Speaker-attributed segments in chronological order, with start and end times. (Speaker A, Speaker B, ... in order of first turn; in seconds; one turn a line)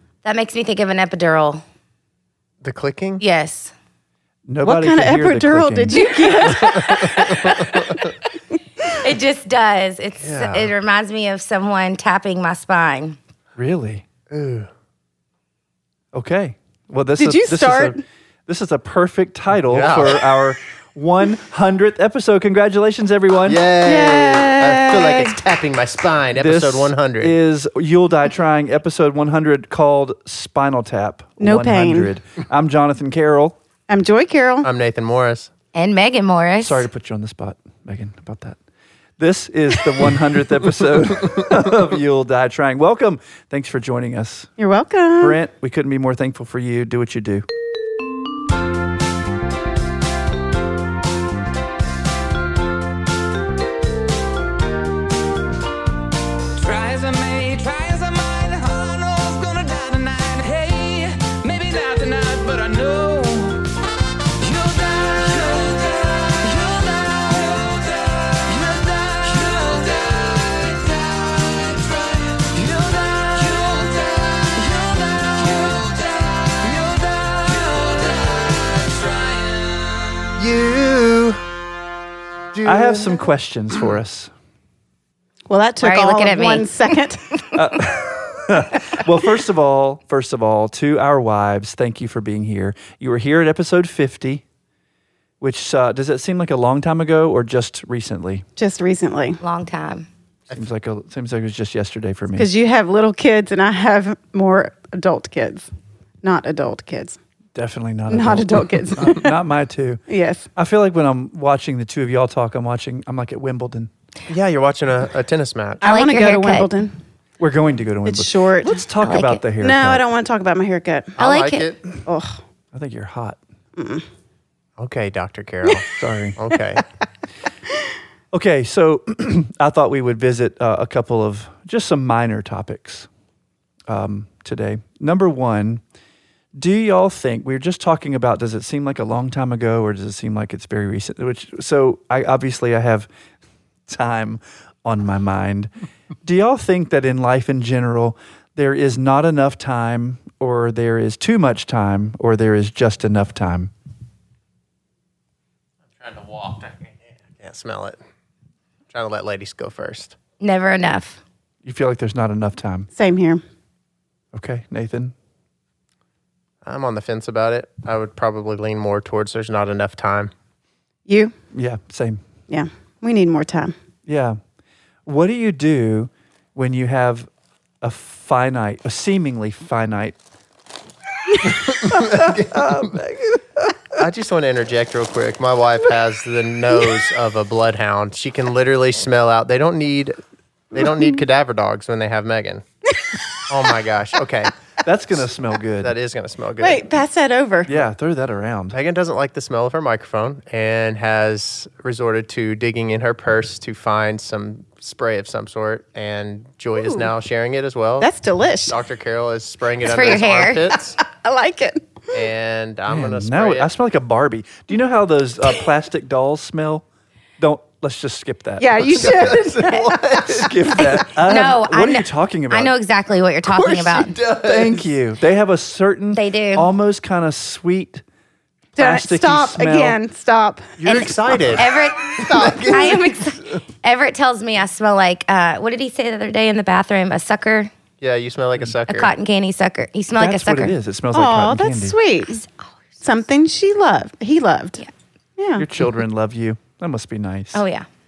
Speaker A: 0.2-1.6
Speaker B: 2.6-3.2
Speaker A: 3.2-3.7
Speaker C: 4.5-6.0
Speaker D: 4.6-7.6
Speaker A: 6.2-8.0
Speaker B: 6.6-7.6
Speaker A: 8.9-13.2
Speaker B: 10.2-10.7
Speaker C: 13.6-14.0
Speaker B: 14.3-14.7
Speaker C: 16.1-23.6
Speaker D: 17.2-18.0
Speaker B: 19.7-20.2
Speaker B: 23.4-27.4
Speaker D: 23.8-25.4
Speaker C: 26.4-33.6
Speaker D: 31.4-32.1
Speaker D: 33.9-34.7
Speaker B: 34.6-35.5
Speaker A: 35.7-36.9
Speaker C: 36.6-38.6
Speaker C: 39.2-44.5
Speaker D: 44.6-45.4
Speaker C: 45.2-47.5
Speaker E: 56.5-63.7
Speaker E: 64.4-80.4
Speaker B: 80.4-81.4
Speaker B: 82.5-83.2
Speaker C: 82.6-84.3
Speaker D: 85.5-87.5
Speaker A: 85.8-86.8
Speaker C: 87.5-94.4
Speaker C: 95.4-98.5
Speaker D: 98.6-99.4
Speaker A: 99.4-100.1
Speaker C: 100.5-102.5
Speaker D: 102.4-105.7
Speaker D: 106.2-107.2
Speaker C: 107.5-110.0
Speaker D: 108.1-109.3
Speaker D: 110.1-110.5
Speaker C: 110.5-113.9
Speaker B: 114.3-115.8
Speaker D: 115.8-117.0
Speaker A: 115.8-116.7
Speaker C: 117.4-120.0
Speaker D: 118.0-118.8
Speaker A: 119.0-119.4
Speaker D: 119.6-121.1
Speaker B: 121.2-121.8
Speaker A: 121.2-121.7
Speaker D: 122.1-122.4
Speaker C: 122.7-123.4
Speaker D: 123.8-124.0
Speaker B: 124.8-126.8
Speaker C: 126.0-126.4
Speaker C: 128.3-133.1
Speaker C: 133.9-135.8
Speaker C: 136.5-143.1
Speaker C: 143.9-145.7
Speaker C: 146.2-153.7
Speaker B: 156.0-158.0
Speaker B: 158.9-160.2
Speaker A: 160.4-161.2
Speaker C: 161.6-162.9
Speaker D: 162.9-163.4
Speaker C: 164.3-165.1
Speaker B: 166.7-170.3
Speaker D: 171.1-171.3
Speaker C: 171.5-172.2
Speaker D: 172.5-173.7
Speaker C: 174.1-174.4
Speaker C: 175.1-177.3
Speaker C: 177.8-180.2
Speaker C: 181.3-184.0
Speaker B: 181.6-182.9
Speaker B: 184.0-190.2
Speaker B: 190.7-192.6
Speaker B: 193.5-194.5
Speaker C: 194.8-195.9
Speaker B: 195.8-197.0
Speaker D: 196.6-197.7
Speaker C: 197.7-198.8
Speaker B: 198.7-208.1
Speaker D: 206.8-207.1
Speaker D: 208.0-208.8
Speaker B: 208.7-211.0
Speaker A: 209.8-210.7
Speaker D: 211.0-212.1
Speaker B: 212.1-213.7
Speaker C: 212.9-216.8
Speaker C: 217.4-219.3
Speaker D: 218.6-220.0
Speaker B: 219.0-220.7
Speaker C: 220.1-222.7
Speaker A: 220.8-224.2
Speaker B: 223.5-224.9
Speaker C: 224.4-228.0
Speaker A: 226.1-226.7
Speaker C: 228.8-230.0
Speaker D: 228.8-231.4
Speaker B: 230.8-233.2
Speaker A: 230.8-237.7
Speaker B: 238.0-239.1
Speaker A: 238.9-240.8
Speaker C: 240.2-242.0
Speaker D: 241.1-242.4
Speaker A: 242.3-242.7
Speaker D: 243.0-244.8
Speaker D: 245.4-245.7
Speaker C: 245.6-247.6
Speaker A: 247.5-247.9